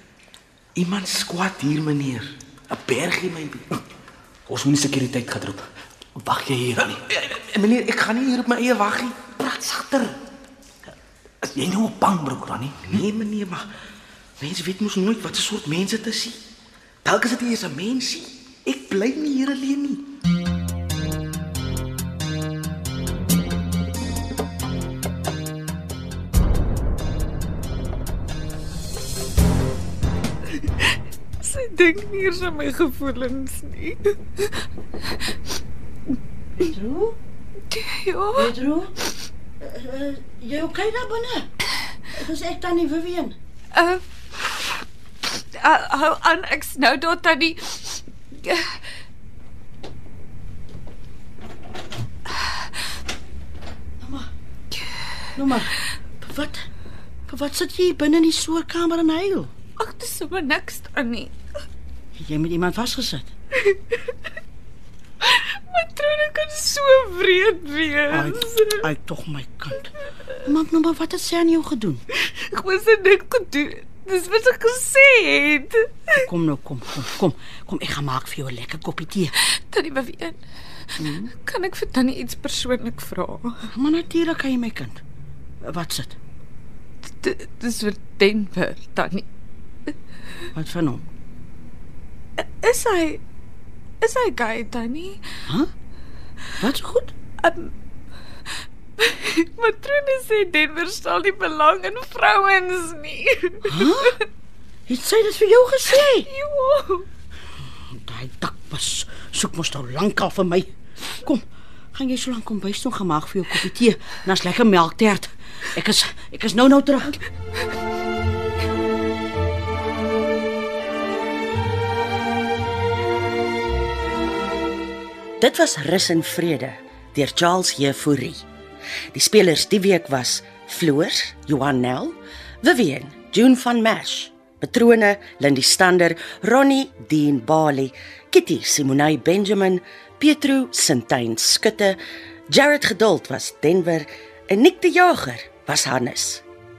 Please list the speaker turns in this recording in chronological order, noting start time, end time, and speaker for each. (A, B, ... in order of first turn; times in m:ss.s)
0:00.8-0:03.7 A
0:04.5-0:05.7 B
0:06.2-0:07.0 B
0:07.1-0:09.3 A
0:09.4-0:10.1 B
0:11.4-0:13.0 B
0:12.9-0:13.7 A
0:14.4-0:16.4 A
0:17.0-0:20.0 A
0:31.4-0:34.5 C
0:36.6-0:37.2 D
0:37.7-0:38.5 C
0:38.4-0:38.9 D
0:39.6-0:41.5 D
0:42.1-0:43.4 D
0:43.7-0:48.7 C
0:54.0-0:54.3 D
0:55.4-0:56.7 D
0:57.3-0:59.5 D
0:59.8-1:01.3 C
1:02.2-1:03.3 D
1:03.6-1:04.0 C
1:05.2-1:08.9 C
1:08.1-1:09.9 D
1:10.4-1:12.0 D
1:12.2-1:16.3 C
1:16.2-1:19.3 D
1:19.4-1:20.4 C
1:21.0-1:21.3 D
1:21.3-1:23.6 C
1:23.7-1:25.0 D
1:25.6-1:26.2 D
1:27.1-1:29.3 C
1:30.5-1:31.0 D
1:32.4-1:33.2 C
1:34.0-1:35.2 C
1:36.6-1:37.1 D
1:37.4-1:37.7 C
1:39.0-1:44.2 C
1:43.7-1:44.2 D
1:44.9-1:46.3 D
1:46.0-1:47.1 C
1:48.0-1:57.2 D
2:05.4-2:08.4 E
2:09.1-2:26.4 E